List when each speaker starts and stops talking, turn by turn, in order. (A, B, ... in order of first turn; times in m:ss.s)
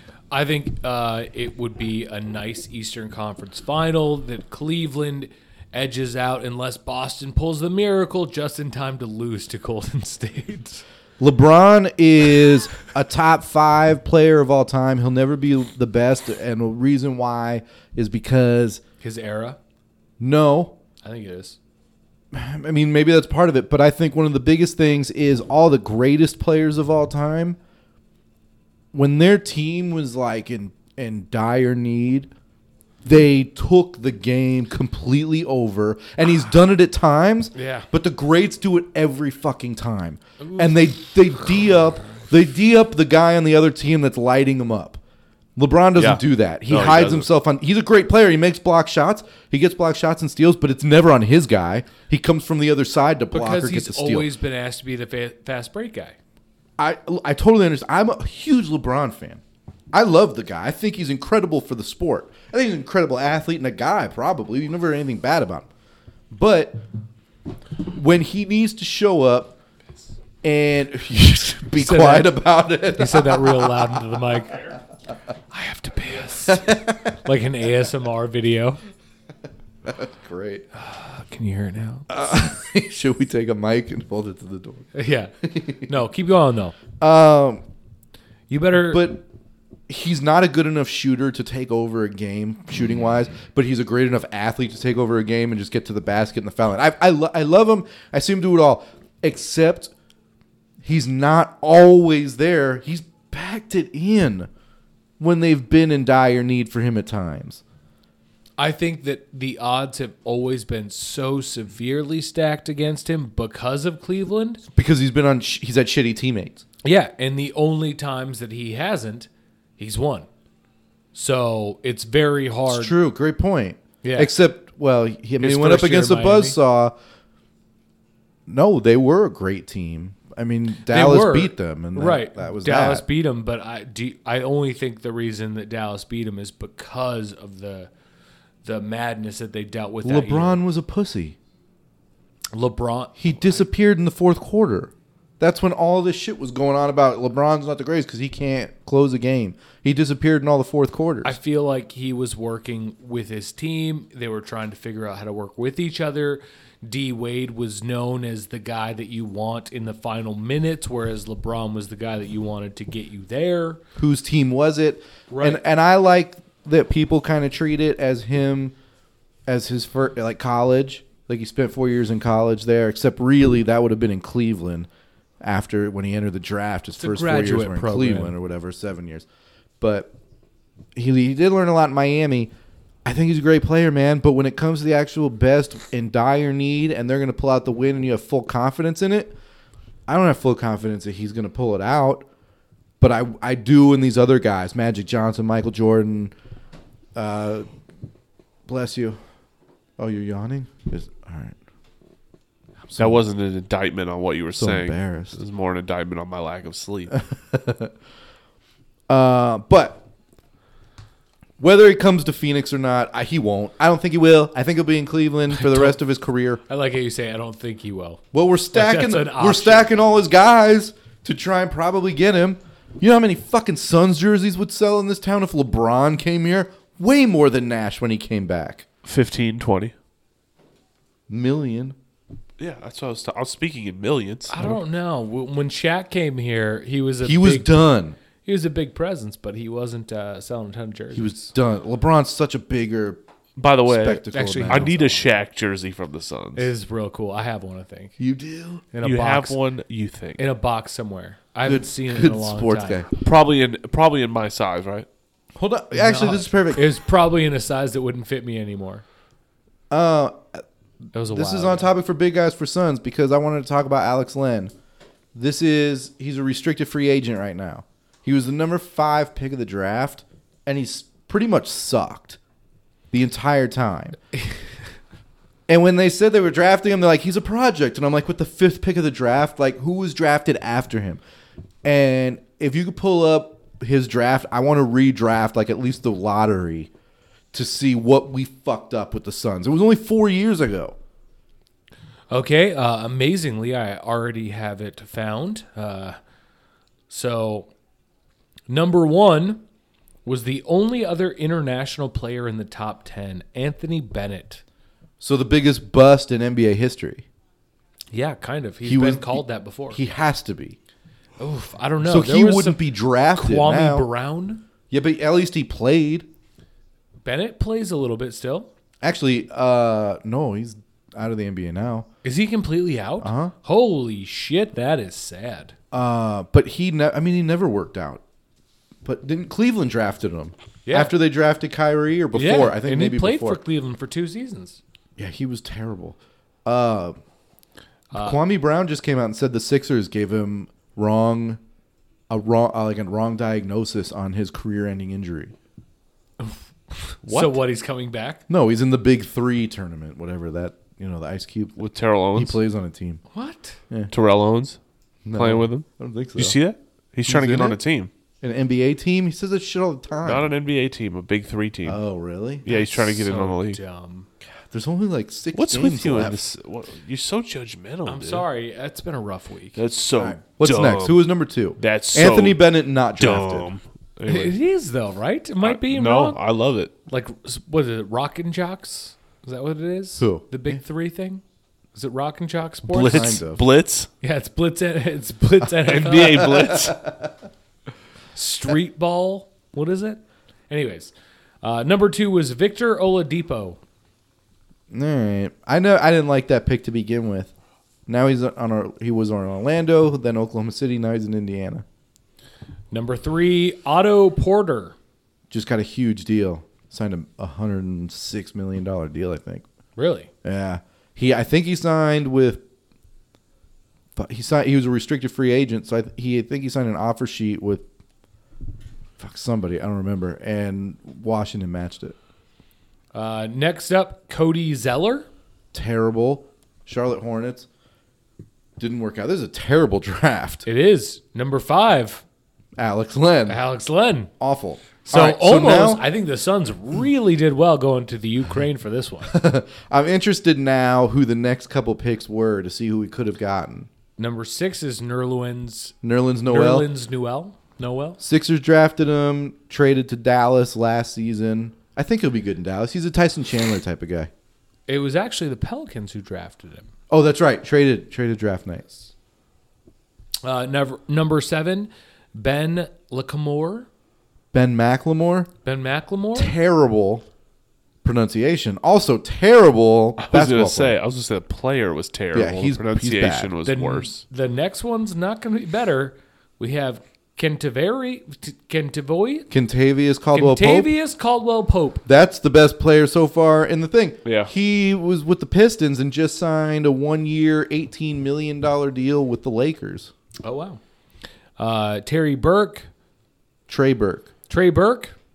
0:00.3-0:10.8 A
0:11.2-0:18.8 B
0:19.0-0:19.6 A
0:20.2-0:20.8 B
0:21.0-0:21.6 A
0:22.3-0:27.6 B
0:28.9-0:32.3 B
0:33.0-0:45.0 B
0:37.5-0:37.9 A
0:40.4-0:40.7 A
0:45.6-0:54.3 B
0:46.0-0:47.3 C
0:53.3-0:56.2 A
0:56.8-0:59.4 B
0:59.9-1:05.7 B
1:06.3-1:06.8 B
1:07.9-1:09.6 B
1:10.4-1:14.0 B
1:11.8-1:12.4 A
1:13.0-1:14.7 A
1:15.5-1:18.8 A
1:16.5-1:17.1 B
1:19.8-1:20.6 B
1:20.7-1:22.1 A
1:22.1-1:24.9 B
1:24.9-1:26.8 A
1:25.4-1:25.9 B
1:27.0-1:27.6 B
1:28.5-1:29.1 A
1:28.9-1:29.2 B
1:29.9-1:39.9 B
1:40.8-1:44.5 B
1:45.2-1:47.6 B
1:48.6-1:54.6 A
1:54.7-1:56.6 B
1:56.8-2:00.3 A
2:01.1-2:02.9 A
2:02.7-2:06.9 B
2:04.0-2:04.3 A
2:05.4-2:06.6 A
2:08.5-2:13.0 B
2:10.9-2:17.9 A
2:18.6-2:20.6 A
2:20.0-2:21.4 B
2:22.5-2:23.6 A
2:23.2-2:31.4 B
2:31.2-2:43.8 A
2:44.0-2:48.7 B
2:45.3-2:45.6 A
2:49.5-2:54.9 B
2:55.4-2:59.2 B
2:57.0-2:58.3 A
2:59.8-3:00.1 B
3:01.0-3:02.5 B
3:03.0-3:09.4 B
3:10.1-3:12.2 B
3:13.0-3:16.3 B
3:17.2-3:17.7 B
3:18.7-3:19.2 B
3:20.0-3:21.6 B
3:22.9-3:23.2 B
3:23.0-3:27.2 C
3:24.6-3:25.4 B
3:27.3-3:27.9 B
3:29.1-3:30.0 B
3:31.6-3:36.6 B
3:35.5-3:36.0 A
3:36.7-3:38.2 A
3:38.3-3:48.8 B
3:38.7-3:39.9 A
3:49.0-3:49.9 C
3:51.3-3:52.0 B
3:52.6-3:54.6 C
3:54.5-3:57.8 A
3:57.2-3:58.2 B
3:58.4-4:01.5 A
4:01.1-4:03.2 B
4:03.6-4:06.7 C
4:03.8-4:05.0 B
4:04.3-4:05.3 A
4:06.5-4:08.1 A
4:08.2-4:08.8 B
4:08.9-4:09.6 A
4:09.0-4:10.4 C
4:10.4-4:13.1 A
4:11.6-4:13.1 B
4:13.2-4:15.1 C
4:15.5-4:16.9 B
4:15.9-4:19.0 A
4:19.9-4:20.6 B
4:21.1-4:21.9 A
4:21.3-4:24.7 B
4:25.3-4:32.4 B
4:33.1-4:34.2 B
4:35.7-4:41.2 B
4:41.8-4:46.9 B
4:47.5-4:51.0 B
4:52.3-4:56.2 A
4:57.1-4:57.7 A
4:58.7-4:59.6 A
5:00.2-5:04.6 A
5:05.2-5:07.2 B
5:08.1-5:10.0 A
5:08.8-5:10.8 B
5:11.4-5:14.6 A
5:12.0-5:14.1 B
5:14.9-5:16.3 B
5:17.2-5:18.7 A
5:19.0-5:22.1 B
5:22.2-5:25.7 A
5:23.2-5:23.5 B
5:25.9-5:28.2 B
5:29.0-5:33.6 B
5:30.8-5:31.1 A
5:32.3-5:34.8 A
5:35.2-5:37.2 B
5:38.1-5:38.4 A
5:38.1-5:41.6 B
5:42.3-5:45.5 B
5:46.4-5:48.4 A
5:48.5-5:51.8 B
5:51.8-5:52.6 C
5:52.3-5:53.2 B
5:53.3-5:53.8 A
5:54.1-5:54.8 C
5:55.2-5:56.6 B
5:55.3-5:58.1 C
5:57.2-5:57.8 B
5:58.4-6:00.5 B
6:00.2-6:02.0 C
6:01.8-6:02.6 B
6:02.6-6:03.8 C
6:02.7-6:04.3 A
6:04.7-6:06.4 B
6:05.5-6:08.4 C
6:08.0-6:09.8 A
6:09.8-6:11.2 C
6:10.2-6:13.7 B
6:11.8-6:12.6 C
6:13.2-6:14.6 C
6:14.2-6:16.4 A
6:15.6-6:16.9 C
6:17.1-6:21.4 A
6:20.2-6:20.8 B
6:21.9-6:23.4 A
6:22.9-6:24.1 C
6:23.0-6:23.6 B
6:24.2-6:26.8 A
6:25.8-6:27.0 C
6:26.6-6:27.2 B
6:28.3-6:33.8 A
6:34.9-6:37.5 B
6:38.1-6:41.8 B
6:42.9-6:44.9 A
6:45.5-6:49.6 B
6:50.0-6:50.3 A
6:50.4-6:52.6 B
6:54.2-6:57.8 B
6:59.2-7:02.2 B
7:03.1-7:05.3 A
7:05.7-7:07.7 B
7:08.8-7:10.6 B
7:10.6-7:12.2 A
7:12.8-7:13.6 B
7:13.5-7:14.3 A
7:14.4-7:16.0 B
7:15.0-7:19.4 A
7:19.2-7:23.9 B
7:24.2-7:25.9 A
7:26.0-7:26.9 B
7:26.5-7:28.2 A
7:28.2-7:34.3 B
7:34.9-7:36.9 A
7:37.1-7:39.0 B
7:40.4-7:43.9 A
7:44.5-7:45.5 B
7:45.6-7:46.5 A
7:46.3-7:47.2 B
7:48.0-7:51.0 B
7:50.2-7:54.2 C
7:52.3-7:53.5 B
7:53.6-7:59.5 A
7:59.5-8:00.9 B
8:00.3-8:02.0 A
8:02.0-8:10.1 B
8:04.2-8:04.5 C
8:10.4-8:10.8 A
8:11.6-8:12.9 A
8:13.7-8:14.3 B
8:14.5-8:15.1 A